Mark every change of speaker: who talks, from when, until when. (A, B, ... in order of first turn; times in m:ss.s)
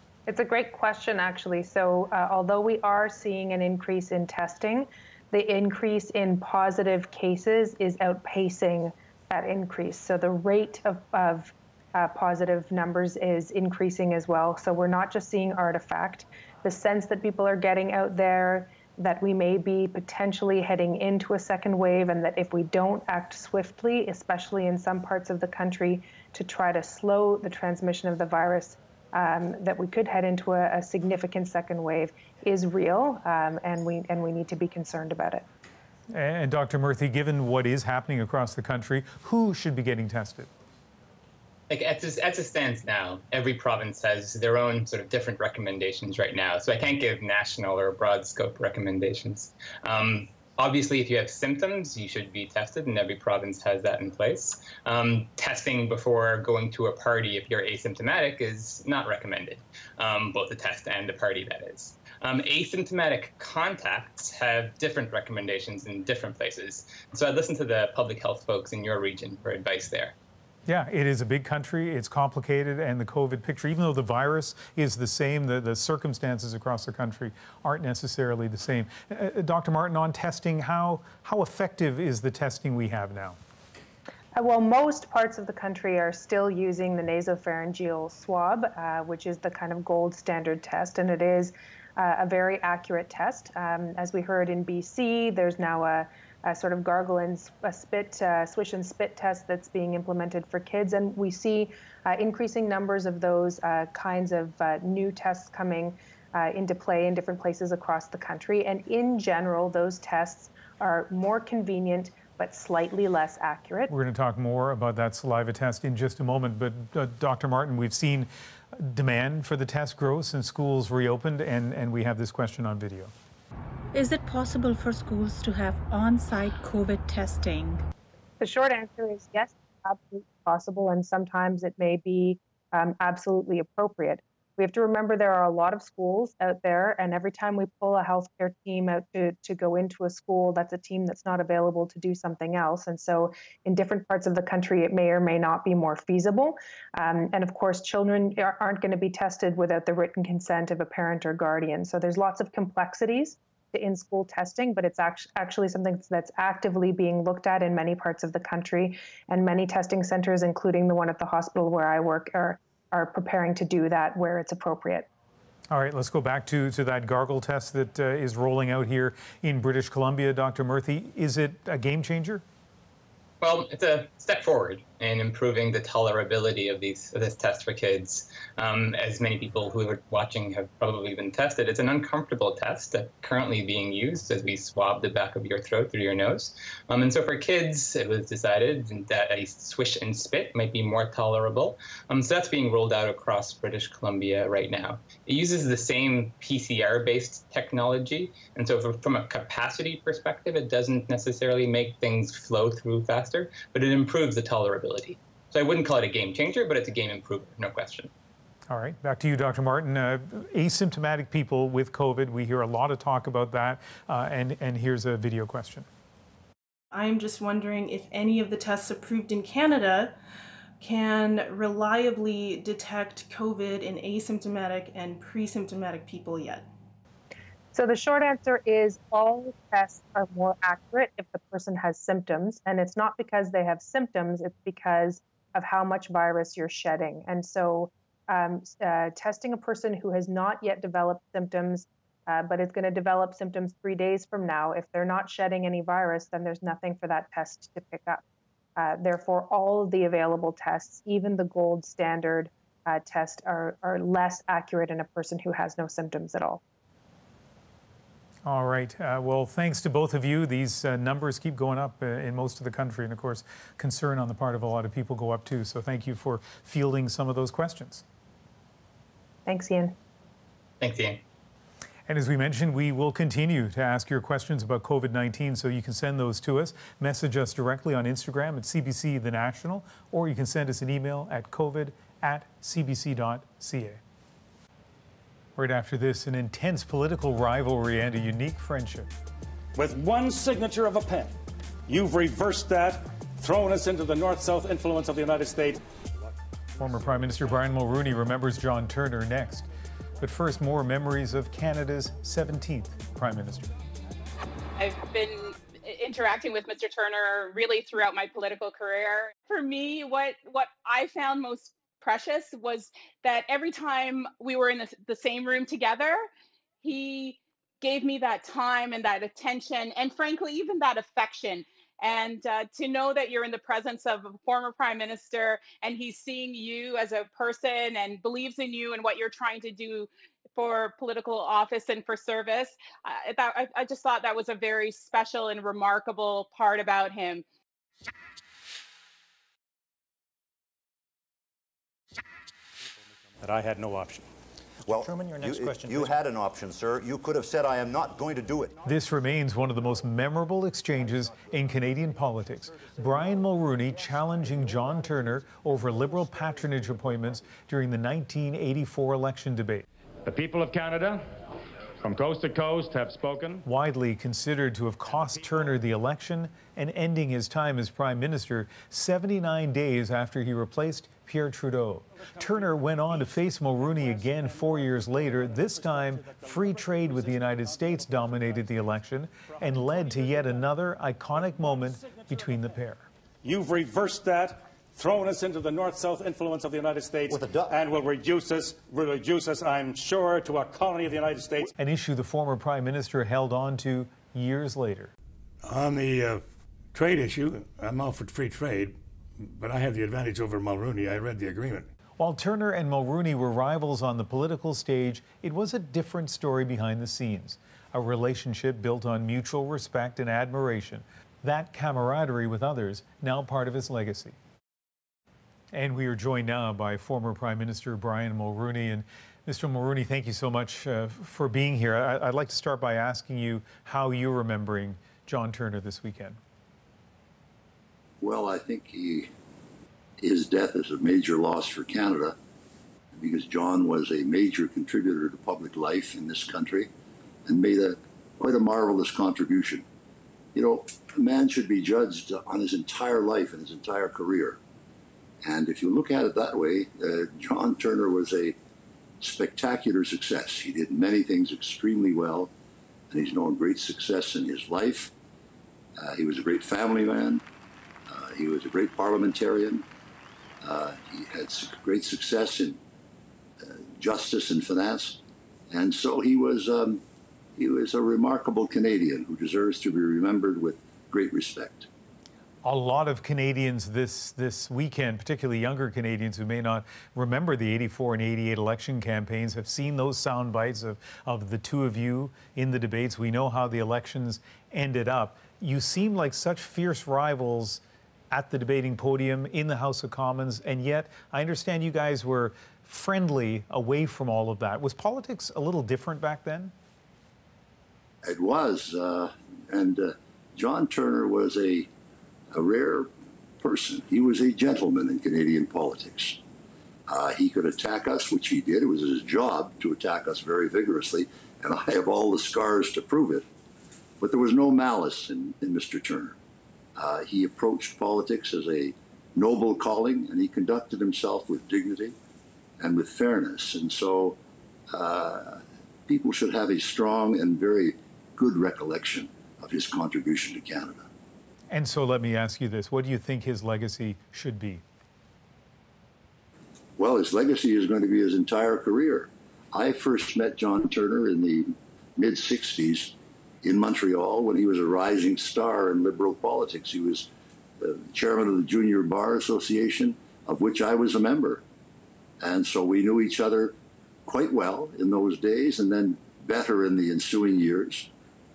0:00.3-0:35.4 A
0:36.1-0:40.5 B
0:41.7-1:10.1 C
1:10.7-1:23.4 B
1:24.4-1:53.9 A
1:53.9-2:03.1 B
2:03.9-2:07.8 D
2:08.4-2:45.1 A
2:45.7-2:52.4 B
2:53.4-3:28.1 C
3:28.7-3:35.8 B
3:36.9-3:40.1 E
3:40.8-3:46.7 E
3:47.7-4:08.2 A
4:08.8-4:16.6 A
4:18.4-4:28.0 B
4:29.4-4:29.9 A
4:30.8-4:31.2 C
4:32.1-4:44.0 B
4:45.6-4:49.1 B
4:49.7-4:51.3 F
4:51.9-4:55.8 F
4:56.8-4:59.7 B
5:00.2-5:03.7 B
5:04.8-5:16.3 G
5:16.8-5:37.4 G
5:43.4-5:44.3 F
5:44.8-5:48.7 H
5:48.8-5:59.8 B
6:00.2-6:01.3 I
6:02.0-6:03.6 I
6:03.6-6:23.0 B
6:15.5-6:16.4 F
6:20.0-6:20.4 F
6:21.4-6:22.2 F
6:23.4-6:31.7 F
6:27.3-6:27.7 H
6:31.8-6:35.1 B
6:35.6-6:41.9 J
6:42.2-6:54.4 B
6:55.7-7:06.4 B
7:08.2-7:09.3 K
7:10.2-7:12.3 K
7:13.1-7:16.9 K
7:17.4-7:19.8 K
7:20.5-7:24.6 K
7:25.4-7:28.5 K
7:29.2-7:32.5 K
7:33.1-7:35.1 K
7:36.0-7:37.4 K
7:38.1-7:39.8 K
7:40.6-7:42.8 K
7:43.6-7:45.2 K
7:45.7-7:47.0 K
7:47.6-7:51.9 K
7:52.6-8:16.7 B
8:18.2-8:21.9 K
8:22.5-8:23.1 K
8:23.6-8:26.4 K
8:27.1-8:33.4 K
8:34.2-8:36.4 K
8:37.0-8:42.1 K
8:42.8-8:44.4 K
8:44.9-8:51.1 K
8:51.7-8:54.8 B
8:57.0-9:07.3 K
9:07.8-9:11.6 K
9:12.4-9:13.7 K
9:14.2-9:18.1 K